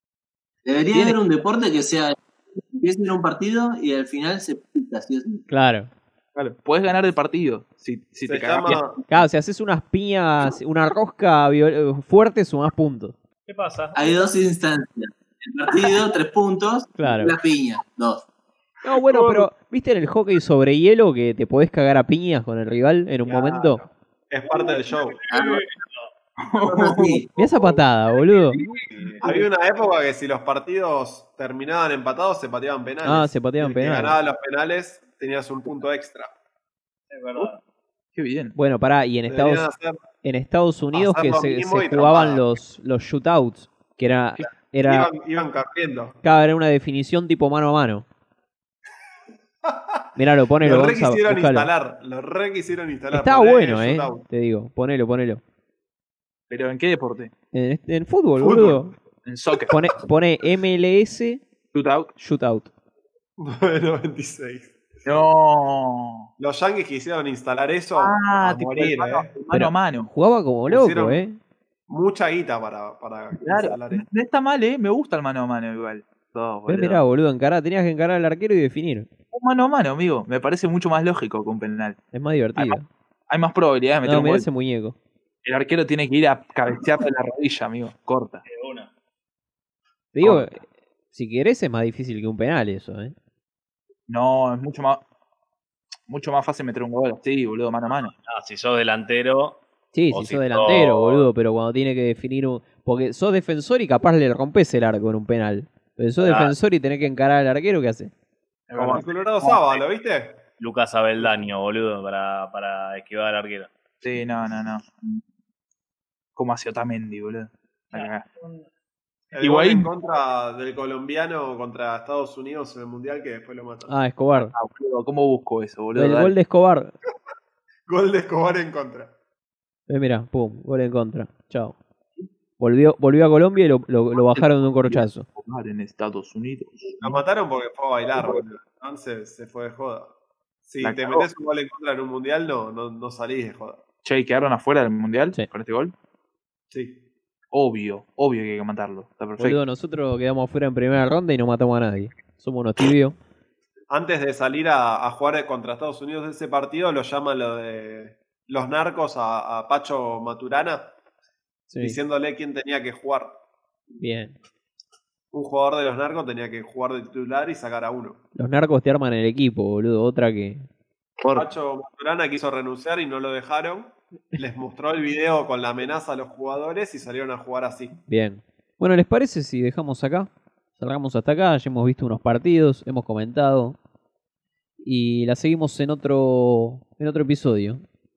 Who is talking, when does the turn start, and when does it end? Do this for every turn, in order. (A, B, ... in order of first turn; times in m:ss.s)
0:00.6-0:02.2 A
0:00.9-0:01.2 B
0:02.7-0:05.4 A
0:05.5-0:05.9 C
0:06.3-0:08.8 B
0:08.2-0:09.0 D
0:09.1-0:13.2 C
0:13.5-0:14.3 E
0:13.9-0:18.2 A
0:17.0-0:17.3 C
0:18.8-0:23.8 C
0:19.1-0:19.5 B
0:23.2-0:25.2 D
0:24.9-0:26.0 E
0:25.3-0:25.6 A
0:26.4-0:27.8 B
0:26.6-0:27.2 A
0:27.4-0:28.6 C
0:28.4-0:29.4 B
0:28.9-0:29.2 E
0:29.2-0:36.3 D
0:33.0-0:34.2 C
0:37.1-0:37.6 E
0:38.1-0:38.6 B
0:38.6-0:39.7 C
0:39.3-0:40.0 D
0:40.2-0:45.1 C
0:40.9-0:42.4 D
0:44.8-0:46.2 D
0:46.2-0:48.0 C
0:49.6-0:54.2 D
0:50.2-0:51.7 C
0:53.1-0:55.4 C
0:56.5-0:57.3 B
0:57.5-0:59.0 C
0:58.4-0:58.8 D
0:59.2-0:59.8 B
0:59.7-1:01.4 C
1:01.7-1:02.1 B
1:02.2-1:02.7 C
1:03.4-1:04.8 D
1:05.0-1:06.3 B
1:06.4-1:09.3 D
1:08.0-1:10.1 B
1:09.5-1:11.4 C
1:10.7-1:11.2 D
1:11.9-1:14.0 D
1:13.4-1:17.0 B
1:16.7-1:19.1 C
1:19.3-1:22.0 B
1:22.1-1:22.8 C
1:23.3-1:24.4 B
1:24.0-1:25.0 C
1:25.4-1:28.4 B
1:28.4-1:28.9 E
1:30.1-1:33.1 C
1:30.2-1:30.5 B
1:34.1-1:35.0 B
1:36.1-1:38.1 B
1:38.2-1:41.3 E
1:39.9-1:48.1 C
1:46.2-1:46.5 E
1:48.7-1:49.6 B
1:48.8-1:50.4 D
1:50.6-1:53.7 E
1:54.0-1:55.2 B
1:56.3-1:58.2 B
1:57.9-1:58.7 E
1:59.3-2:03.9 D
1:59.4-1:59.9 B
2:03.9-2:04.5 C
2:04.4-2:06.3 B
2:05.9-2:06.9 C
2:07.9-2:09.1 D
2:09.9-2:11.8 C
2:12.6-2:15.2 C
2:14.3-2:17.2 B
2:17.0-2:20.1 D
2:20.6-2:23.8 D
2:20.8-2:21.3 B
2:24.0-2:25.9 B
2:26.7-2:27.0 D
2:27.5-2:29.6 B
2:29.4-2:33.2 C
2:33.9-2:40.9 D
2:41.7-2:42.0 C
2:41.8-2:43.4 D
2:44.0-2:44.4 C
2:45.3-2:48.2 D
2:48.3-2:50.7 C
2:51.2-2:51.4 A
2:51.3-2:58.0 D
2:58.1-3:03.8 C
3:04.8-3:07.8 C